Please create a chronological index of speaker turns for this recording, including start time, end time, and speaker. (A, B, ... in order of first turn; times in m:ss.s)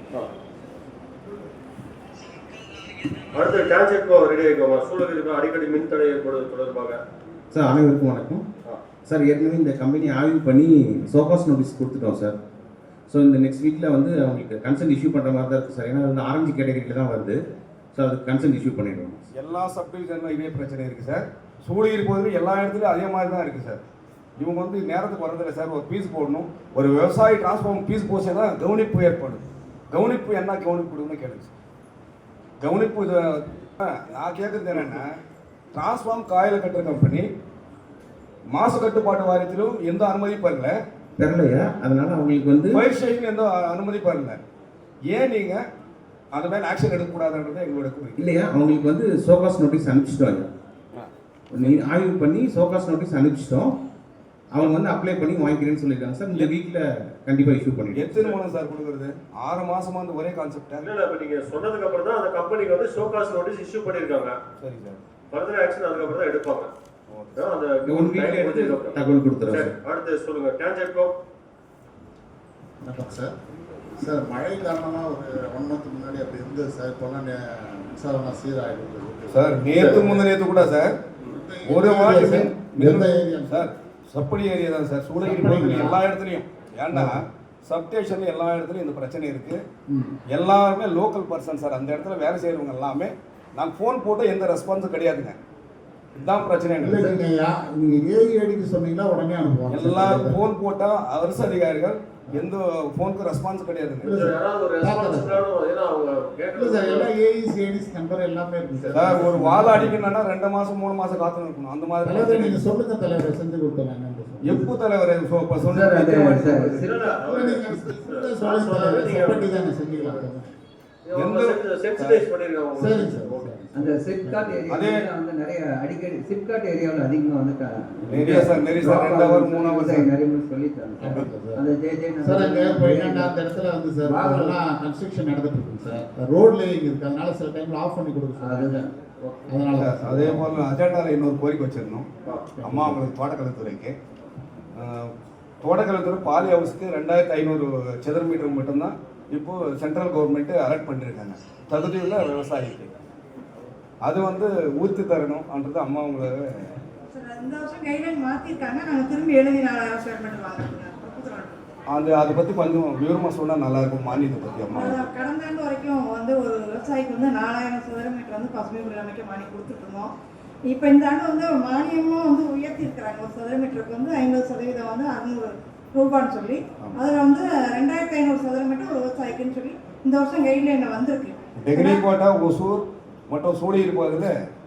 0:03.3-0:07.0 A
0:07.6-0:08.4 B
0:09.2-0:12.4 B
0:13.1-0:17.4 B
0:18.0-0:19.2 B
0:19.3-0:23.8 C
0:24.4-0:31.5 C
0:32.6-0:35.1 C
0:35.7-0:37.3 C
0:38.5-0:40.8 C
0:41.2-0:42.8 B
0:42.7-0:44.4 C
0:45.1-0:45.6 C
0:46.3-0:48.4 C
0:48.2-0:50.4 B
0:50.9-0:51.8 C
0:51.6-0:53.7 B
0:54.6-0:58.0 B
0:57.9-1:00.9 C
1:00.8-1:04.4 A
1:04.6-1:05.0 C
1:05.3-1:06.7 A
1:07.1-1:07.5 C
1:07.4-1:11.1 A
1:07.9-1:08.9 D
1:08.0-1:08.4 B
1:09.0-1:09.5 B
1:12.8-1:13.3 D
1:14.0-1:20.6 D
1:19.3-1:20.9 C
1:19.8-1:20.0 A
1:21.3-1:23.7 D
1:21.6-1:29.6 C
1:25.2-1:26.0 D
1:26.9-1:27.3 D
1:29.9-1:30.2 D
1:30.3-1:35.4 C
1:36.2-1:37.2 C
1:36.8-1:40.4 D
1:39.7-1:44.2 C
1:44.0-1:47.1 A
1:44.0-1:45.4 D
1:46.6-1:50.1 D
1:48.9-1:52.6 C
1:52.0-1:54.7 D
1:54.4-1:56.9 C
1:55.6-1:57.2 E
1:56.8-2:00.3 A
1:57.3-2:00.6 D
2:01.1-2:03.5 A
2:01.1-2:02.2 C
2:02.8-2:04.6 D
2:03.7-2:13.4 E
2:04.7-2:05.1 C
2:08.1-2:10.1 C
2:11.0-2:11.6 D
2:12.2-2:18.9 D
2:14.0-2:14.6 E
2:18.4-2:19.6 E
2:19.5-2:20.7 D
2:19.7-2:22.1 C
2:22.3-2:23.1 D
2:22.6-2:24.0 C
2:24.8-2:25.1 C
2:25.6-2:32.9 C
2:34.0-2:36.7 C
2:37.1-2:41.6 F
2:41.9-2:45.0 C
2:44.8-2:50.1 F
2:50.7-3:02.0 F
3:01.6-3:04.3 C